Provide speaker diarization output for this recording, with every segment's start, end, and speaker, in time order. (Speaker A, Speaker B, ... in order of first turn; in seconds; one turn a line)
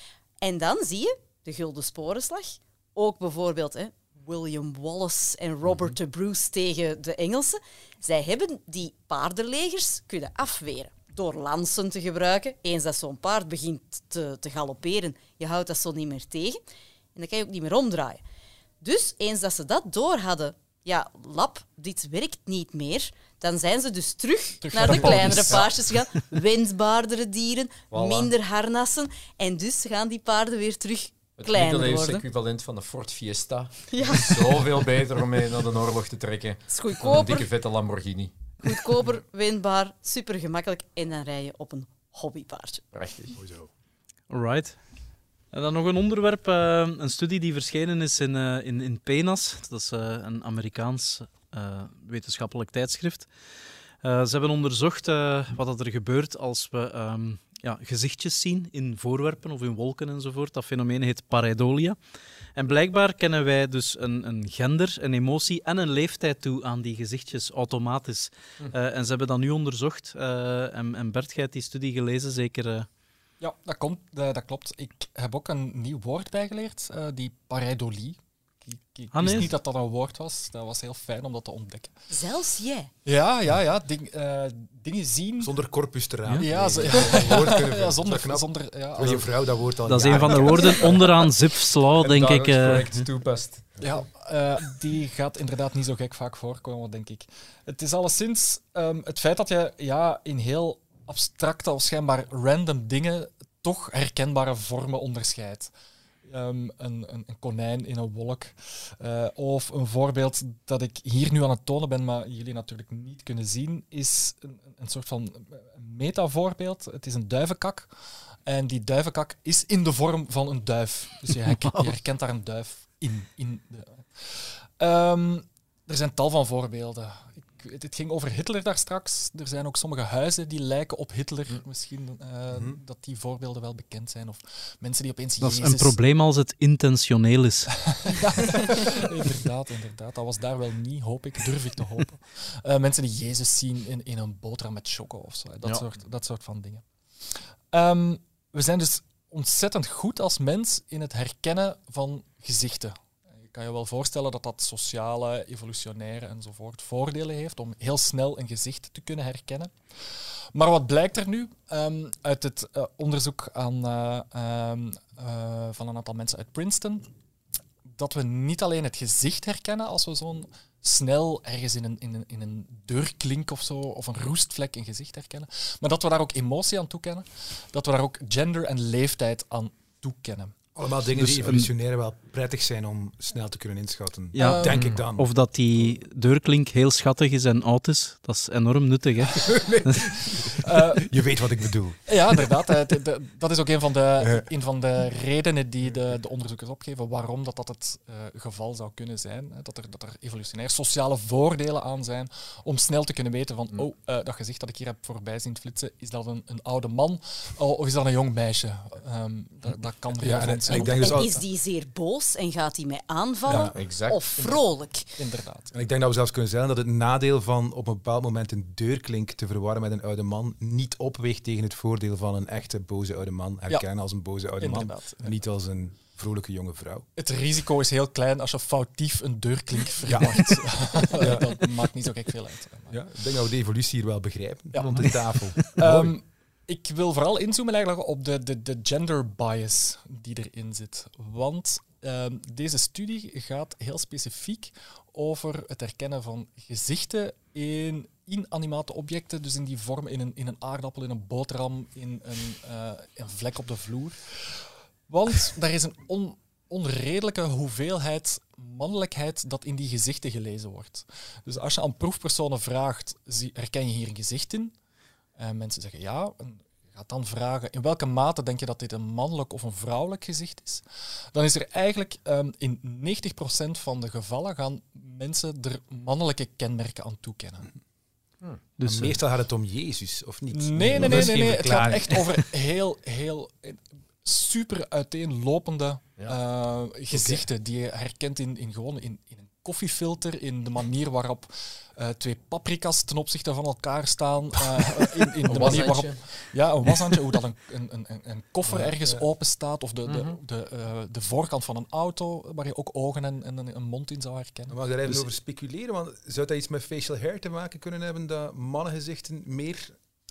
Speaker A: 0.4-16.6
Speaker A: 17.1-18.2
Speaker A: 18.8-32.2
Speaker B: 24.6-25.7
Speaker C: 24.9-25.7
Speaker C: 27.9-28.3
Speaker C: 31.4-38.3
Speaker A: 33.9-34.6
Speaker A: 36.7-37.5
Speaker A: 38.6-42.9
Speaker C: 42.9-43.3
Speaker D: 43.4-43.7
Speaker E: 44.3-44.8
Speaker E: 45.5-53.3
Speaker E: 54.0-62.0
Speaker E: 62.5-72.9
Speaker B: 73.4-81.9
Speaker E: 79.1-79.5
Speaker A: 82.1-82.9
Speaker B: 83.0-85.5
Speaker D: 85.4-91.1
Speaker C: 86.3-87.4
Speaker B: 86.3-89.4
Speaker E: 89.8-93.0
Speaker C: 90.0-91.0
Speaker C: 92.0-94.0
Speaker B: 93.8-105.7
Speaker B: 106.2-117.9
Speaker B: 118.5-135.9
Speaker D: 132.5-132.8
Speaker E: 135.4-137.7
Speaker B: 137.7-159.7
Speaker B: 160.5-167.1
Speaker B: 167.8-180.6
Speaker D: 180.7-185.3
Speaker B: 181.1-181.6
Speaker E: 181.3-181.7
Speaker E: 184.3-190.3
Speaker B: 184.4-184.9
Speaker C: 184.7-185.0
Speaker D: 189.3-192.1
Speaker B: 190.6-191.1
Speaker B: 192.1-211.3
Speaker D: 210.2-211.4
Speaker A: 210.7-215.1
Speaker D: 213.5-213.8
Speaker C: 213.7-214.2
Speaker B: 214.3-215.7
Speaker D: 215.7-227.1
Speaker B: 224.6-225.3
Speaker B: 227.2-233.0
Speaker D: 230.1-231.7
Speaker D: 232.9-236.1
Speaker B: 234.7-264.7
Speaker B: 265.4-277.7
Speaker E: 278.8-279.2
Speaker D: 278.8-282.2
Speaker B: 280.5-305.2
Speaker C: 295.4-296.3
Speaker D: 298.7-299.2
Speaker C: 300.1-300.4
Speaker D: 304.7-309.9